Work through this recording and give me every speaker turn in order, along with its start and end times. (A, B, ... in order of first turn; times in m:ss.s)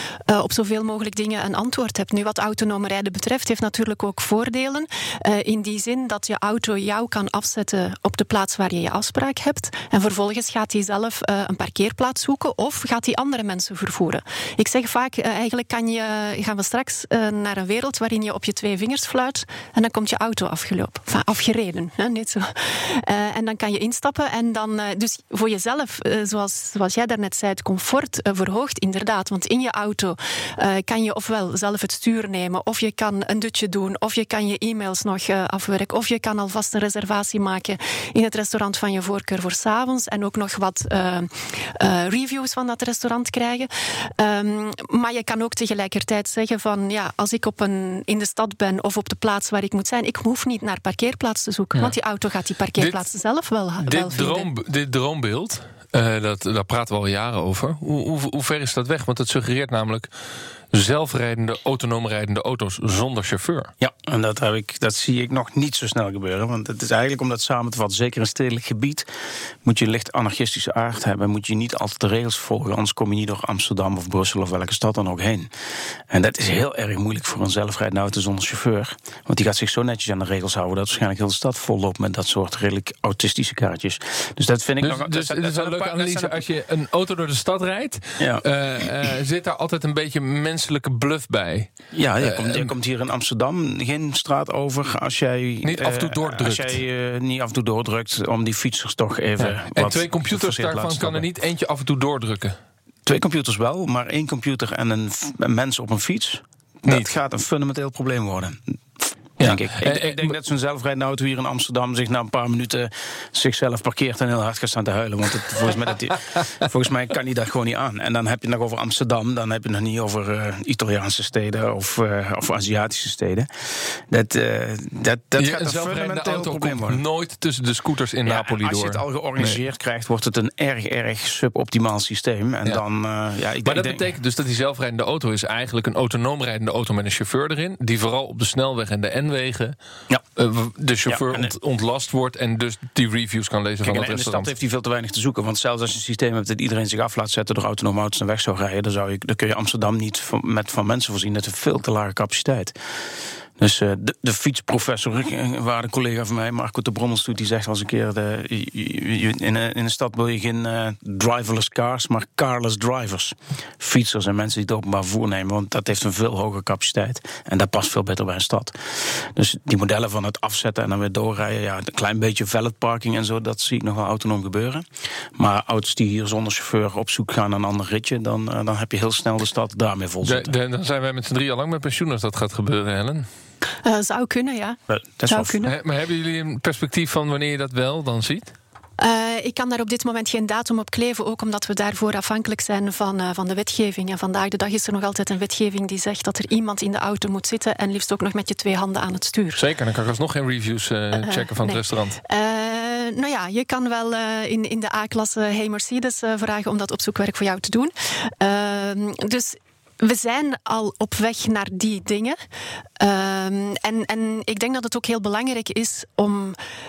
0:00.3-0:54.5 A
0:53.8-1:00.1 B
1:00.7-1:03.7 B
1:03.8-1:09.1 C
1:09.6-1:15.5 C
1:16.1-1:26.4 C
1:24.8-1:32.7 B
1:28.2-1:28.4 C
1:31.9-1:41.3 C
1:35.6-1:36.8 B
1:39.4-1:42.6 B
1:43.0-1:48.7 C
1:49.4-2:07.0 C
1:49.4-1:50.4 B
2:05.4-2:09.6 B
2:08.2-2:14.0 C
2:13.6-2:19.8 B
2:20.4-2:24.5 B
2:21.1-2:21.5 C
2:23.8-2:32.8 C
2:33.6-3:00.5 C
3:00.2-3:03.2 B
3:03.8-3:05.8 A
3:04.9-3:05.6 C
3:05.6-3:08.5 B
3:09.0-3:19.6 A
3:19.6-3:22.2 B
3:21.2-3:32.4 A
3:33.0-3:36.6 A